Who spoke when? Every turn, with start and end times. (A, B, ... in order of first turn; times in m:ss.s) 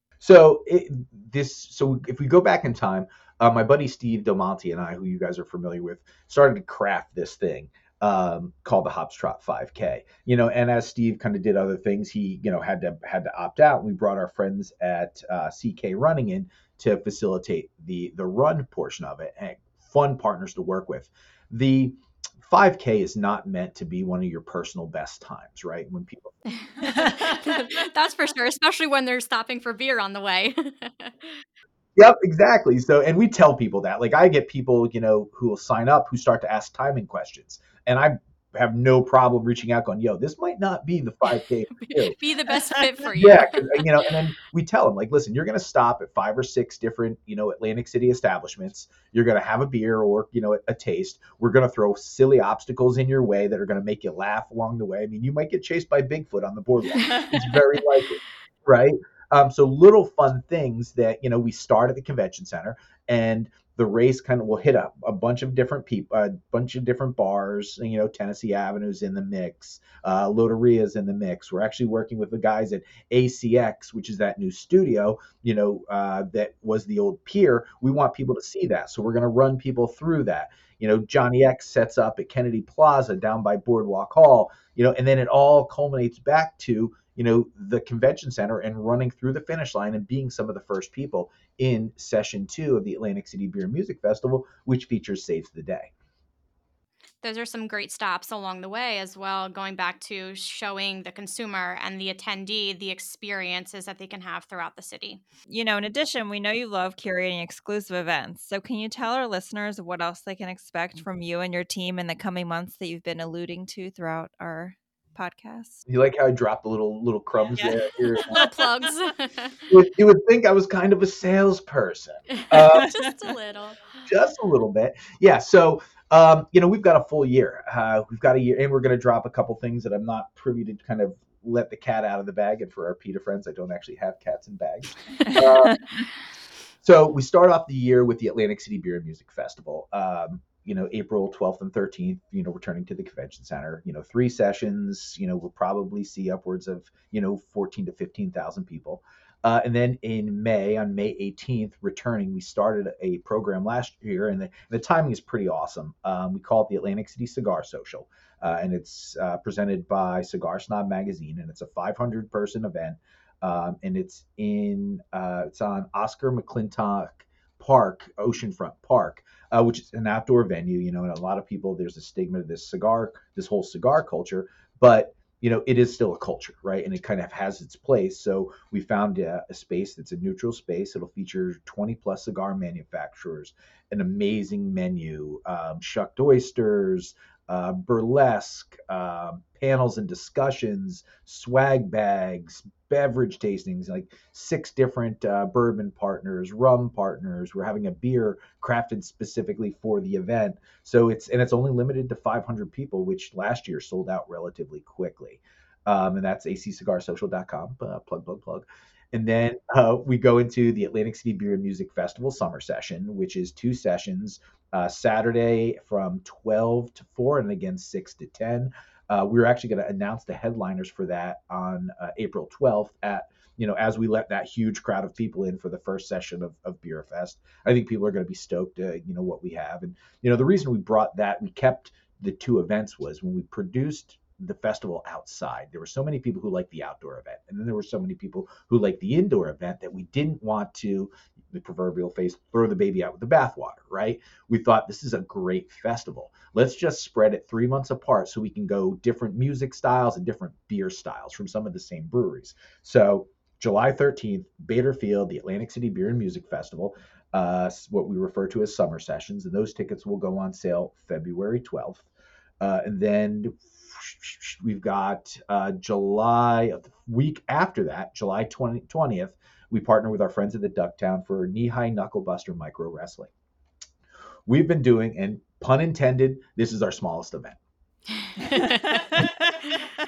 0:00.2-0:26.4 A
0:26.8-0:31.4 B
0:32.0-0:42.6 A
0:41.8-0:43.8 B
0:43.1-1:35.9 A
1:37.2-1:45.2 B
1:45.5-1:55.8 C
1:55.9-1:58.4 A
1:57.5-1:58.5 C
1:58.3-1:59.7 B
1:59.7-2:02.9 A
2:02.3-2:04.1 B
2:02.7-2:03.0 C
2:04.0-2:15.8 A
2:16.8-4:22.1 A
4:22.6-4:33.3 A
4:34.4-4:37.6 A
4:38.5-4:38.8 B
4:38.6-4:39.5 C